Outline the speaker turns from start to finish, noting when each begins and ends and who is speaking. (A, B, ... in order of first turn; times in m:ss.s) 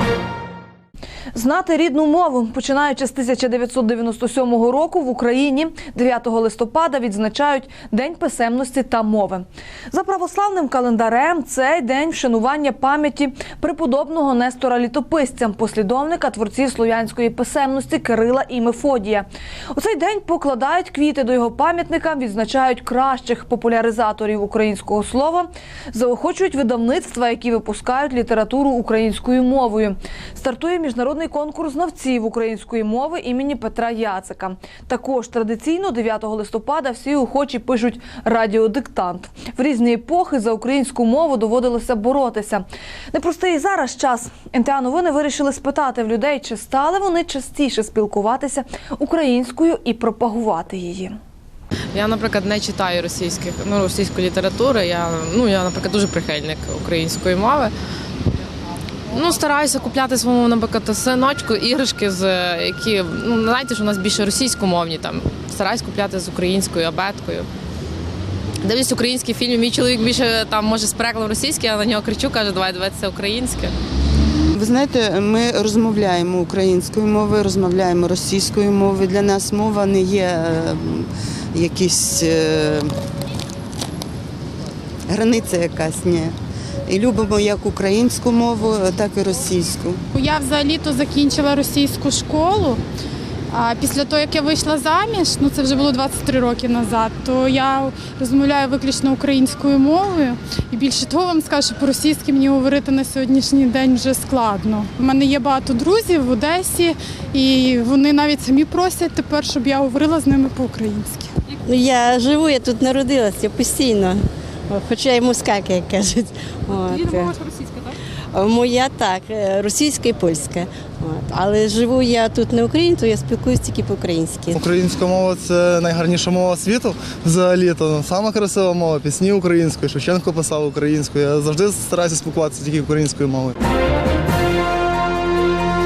0:01.3-0:51.2 A
0:51.9-0:57.7 B
0:59.1-1:07.5 B
1:08.6-1:13.7 B
1:14.6-1:22.9 C
1:25.1-1:26.3 C
1:26.9-1:30.0 C
1:30.1-1:32.8 D
1:33.5-1:51.3 D
1:51.6-1:57.3 E
1:58.3-2:04.6 E
2:04.5-2:13.5 F